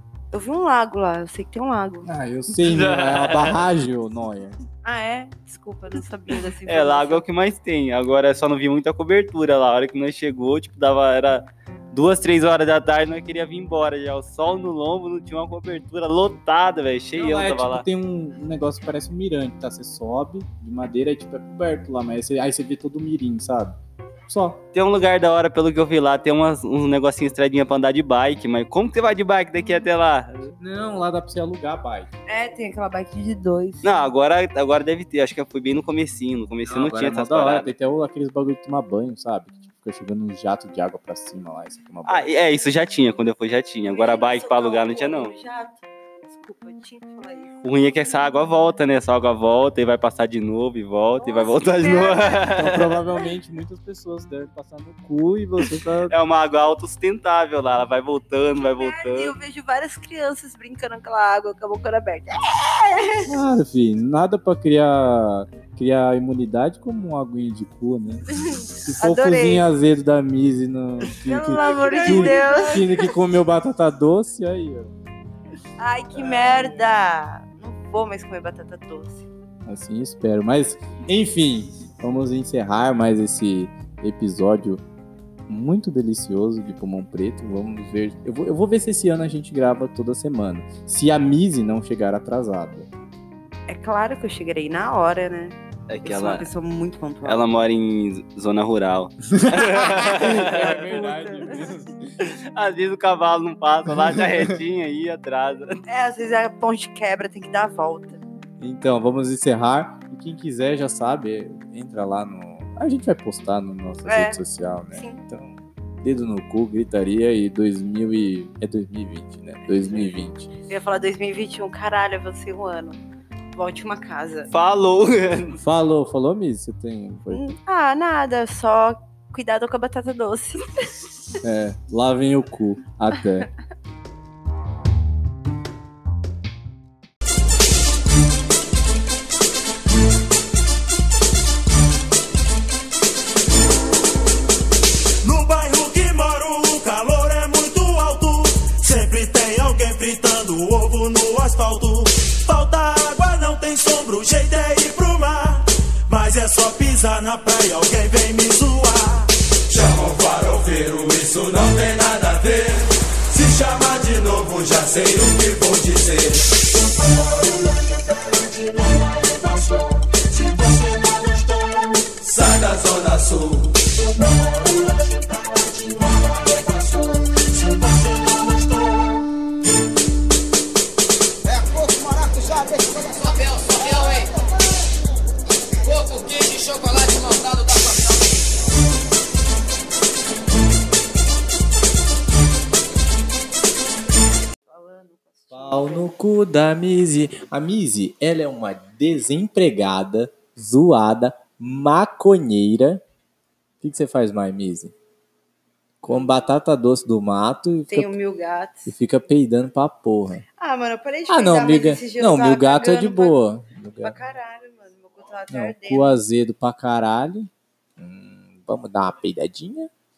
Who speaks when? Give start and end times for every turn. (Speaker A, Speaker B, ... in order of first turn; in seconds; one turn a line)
Speaker A: 0.3-2.1
Speaker B: 2.0-4.6
Speaker C: 2.6-3.6
Speaker A: 4.8-7.2
Speaker C: 6.7-17.9
Speaker B: 17.2-23.8
Speaker B: 24.3-24.6
Speaker C: 24.7-30.6
Speaker B: 30.6-32.1
Speaker A: 32.3-33.9
Speaker C: 33.8-37.7
Speaker B: 36.6-42.3
Speaker C: 42.1-45.3
Speaker A: 43.9-47.6
Speaker C: 47.6-52.9
Speaker A: 51.2-52.5
Speaker B: 52.4-56.1
Speaker C: 56.1-59.4
Speaker A: 58.6-63.3
Speaker B: 63.3-68.3
Speaker A: 68.3-69.7
Speaker B: 68.8-74.9
Speaker A: 71.2-73.1
Speaker C: 71.9-72.5
Speaker A: 75.8-79.3
Speaker B: 79.7-84.8
Speaker B: 85.5-92.9
Speaker A: 93.7-97.5
Speaker C: 95.9-96.5
Speaker C: 97.2-100.8
Speaker B: 99.3-102.1
Speaker A: 99.9-101.7
Speaker C: 102.2-105.8
Speaker B: 103.9-104.5
Speaker A: 105.9-108.2
Speaker B: 108.6-120.5
Speaker A: 114.1-114.4
Speaker A: 114.9-115.2
Speaker A: 120.7-123.0
Speaker A: 123.5-124.5
Speaker C: 124.5-125.6
Speaker B: 125.6-127.4
Speaker A: 127.3-130.9
Speaker B: 131.4-133.5
Speaker D: 145.2-166.5
Speaker D: 168.6-175.2
Speaker D: 175.9-179.2
Speaker A: 194.7-196.1
Speaker B: 195.5-203.0
Speaker B: 203.8-204.9
Speaker B: 206.0-208.1
Speaker A: 207.9-208.9
Speaker B: 208.9-210.4
Speaker A: 210.6-213.4
Speaker B: 211.3-214.2
Speaker A: 214.0-216.1
Speaker B: 215.5-219.9